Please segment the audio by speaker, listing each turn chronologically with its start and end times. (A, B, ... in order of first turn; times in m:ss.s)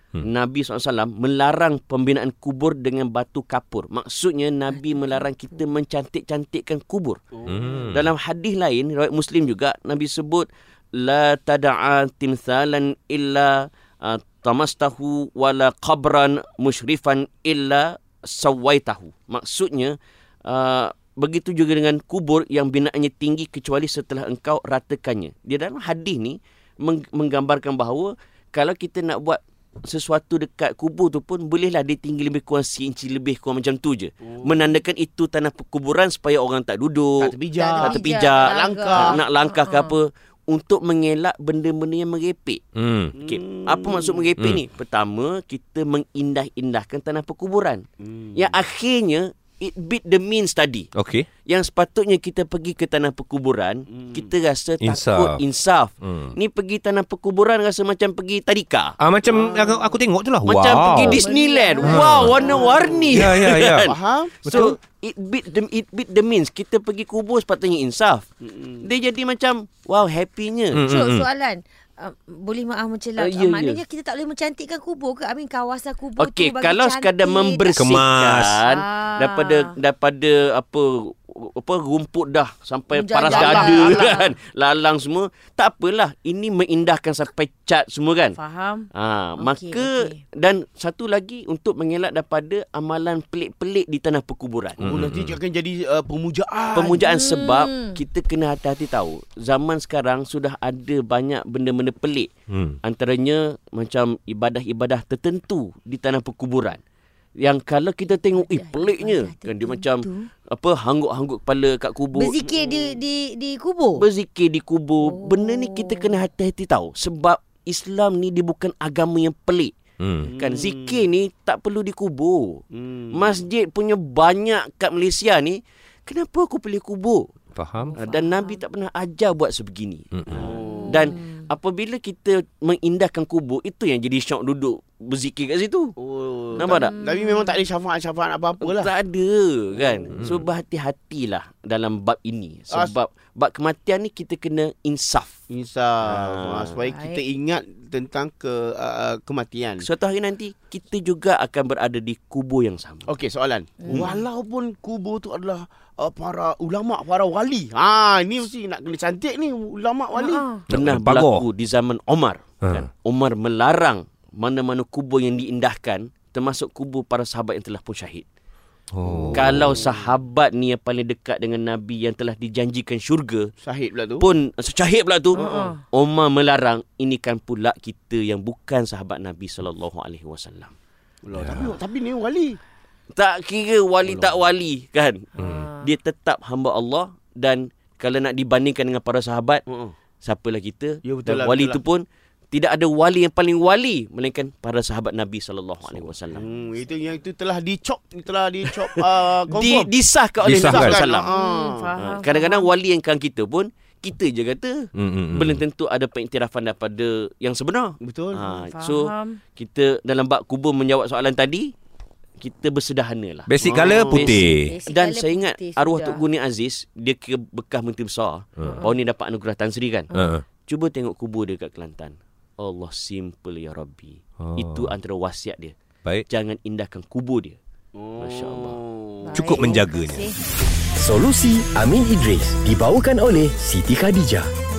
0:00.2-0:07.2 A
0:04.8-0:05.2 B
0:07.3-0:07.9 C
0:07.4-0:08.1 D
0:07.9-0:42.6 A
0:34.2-0:34.5 C
0:37.2-0:39.2 C
0:37.5-0:39.9 B
0:42.8-0:43.2 D
0:43.1-0:44.3 C
0:43.2-0:47.8 A
0:48.0-0:48.5 C
0:48.4-0:50.9 A
0:50.9-0:51.3 D
0:51.4-0:59.0 A
0:53.9-0:54.3 C
0:54.8-0:55.4 D
0:56.0-0:56.3 D
0:59.0-1:01.2 D
0:59.3-0:59.9 C
1:00.4-1:08.3 A
1:00.9-1:02.9 B
1:01.8-1:02.4 D
1:02.2-1:04.7 C
1:03.1-1:03.9 D
1:04.4-1:04.8 D
1:08.4-1:08.8 C
1:08.8-1:10.8 A
1:10.7-1:11.3 D
1:10.9-1:17.9 B
1:13.2-1:13.8 A
1:16.2-1:28.4 A
1:17.8-1:18.6 D
1:18.6-1:19.7 B
1:22.9-1:24.3 B
1:23.2-1:24.0 C
1:28.3-1:30.2 B
1:28.9-1:34.9 A
1:34.8-1:35.4 D
1:34.8-1:37.0 C
1:36.7-1:38.0 B
1:36.7-1:42.3 A
1:42.5-1:42.8 D
1:42.8-1:46.8 A
1:47.4-1:52.4 A
1:48.3-1:50.3 B
1:52.1-1:54.0 B
1:54.0-1:59.7 A
1:55.0-1:56.2 B
2:00.0-2:00.3 D
2:00.2-2:01.1 C
2:00.3-2:07.3 A
2:02.7-2:03.4 C
2:07.5-2:08.0 D
2:07.9-2:08.6 B
2:08.0-2:15.9 A
2:10.1-2:10.4 D
2:10.3-2:11.1 C
2:10.7-2:11.4 B
2:16.0-2:18.9 C
2:16.6-2:16.9 A
2:16.6-2:17.6 B
2:18.6-2:25.4 A
2:25.5-2:29.8 C
2:26.1-2:26.6 A
2:26.8-2:27.2 B
2:29.8-2:33.1 A
2:33.1-2:40.5 C
2:33.8-2:34.1 B
2:33.9-2:34.1 A
2:40.1-2:40.6 B
2:40.7-2:41.4 D
2:40.7-2:48.2 A
2:48.9-2:49.7 D
2:49.1-2:49.9 C
2:49.3-2:53.5 A
2:53.6-2:54.3 C
2:54.2-3:00.7 A
2:55.3-2:55.8 B
2:55.4-2:55.7 C
3:01.2-3:02.6 C
3:01.3-3:01.7 D
3:03.1-3:09.6 A
3:04.0-3:04.4 C
3:05.4-3:05.9 B
3:09.7-3:09.9 C
3:10.2-3:16.4 A
3:11.0-3:11.8 C
3:16.3-3:19.9 C
3:19.5-3:21.3 A
3:20.4-3:21.0 D
3:20.5-3:22.0 C
3:21.1-3:22.7 B
3:22.0-3:31.7 A
3:25.0-3:25.6 D
3:28.0-3:28.4 C
3:28.4-3:29.4 B
3:32.4-3:40.1 A
3:33.5-3:34.8 D
3:33.6-3:34.4 C
3:34.1-3:36.2 B
3:38.6-3:38.9 B
3:40.1-3:40.4 D
3:40.7-3:45.7 A
3:44.4-3:44.9 D
3:46.3-3:47.6 A
3:48.0-3:49.6 C
3:48.2-3:48.8 A
3:49.2-3:50.4 B
3:49.3-3:50.2 D
3:51.0-3:54.5 E